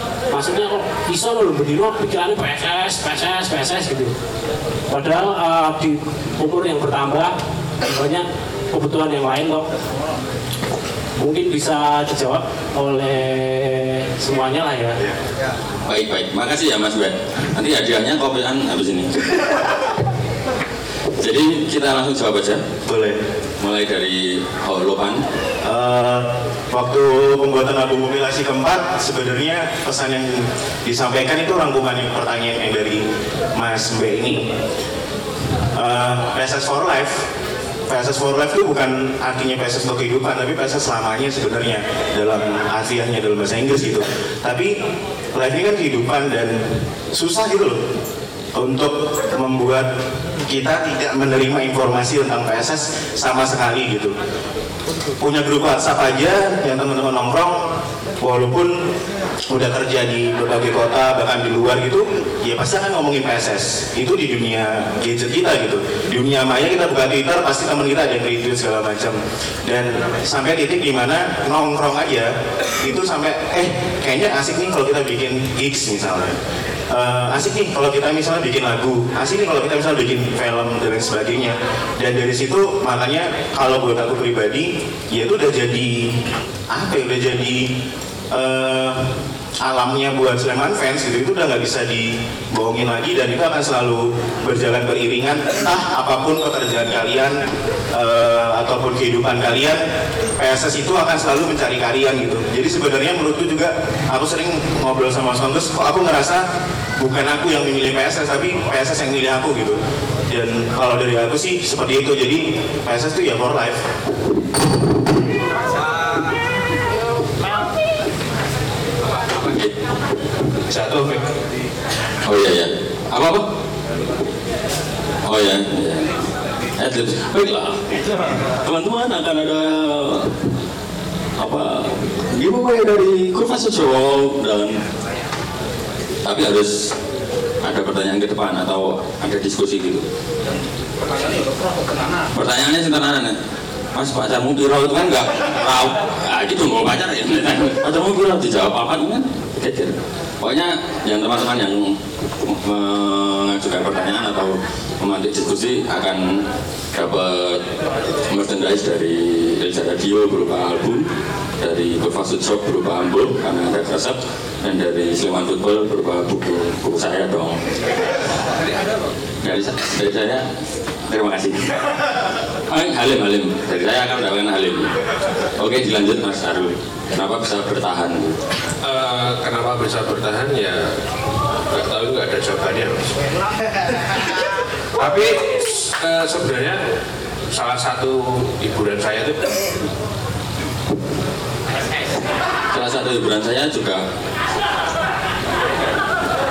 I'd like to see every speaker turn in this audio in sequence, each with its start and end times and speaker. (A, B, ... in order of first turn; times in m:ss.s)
0:00.3-0:04.1 A
0:04.9-0:07.3 A
0:07.9-0:09.7 A
0:11.2-0:15.0 A
0:15.9-0:19.6 B
0:21.2-0:22.6 B
0:22.8-0:23.2 C
0:23.6-0:25.2 B
0:25.6-0:34.5 C
0:35.7-0:37.2 C
0:37.9-0:44.7 C
0:45.3-0:46.6 C
0:47.1-0:47.8 C
0:48.5-0:49.9 C
0:50.4-0:54.1 C
0:55.2-0:57.6 C
0:58.2-0:58.7 C
0:59.5-1:16.3 C
1:16.9-1:26.2 C
1:26.7-1:27.7 C
1:28.3-1:37.4 C
1:37.9-1:39.8 C
1:40.4-1:46.4 C
1:47.0-1:53.8 C
1:59.4-1:59.7 B
2:00.7-2:01.2 D
2:02.2-2:03.4 B
2:05.2-2:06.1 B
2:06.8-2:10.3 B
2:11.4-2:14.8 B
2:16.2-2:16.9 B
2:17.6-2:20.0 B
2:22.3-2:23.3 B
2:23.9-2:36.4 B
2:36.9-2:37.6 B
2:38.3-2:41.0 B
2:41.6-2:47.6 B
2:49.4-2:50.4 B
2:51.1-2:51.7 B
2:52.7-2:54.9 B
2:55.6-2:58.4 B
2:58.8-3:00.9 D
3:01.7-3:03.2 D
3:05.0-3:06.8 D
3:07.5-3:09.6 D
3:12.7-3:14.0 B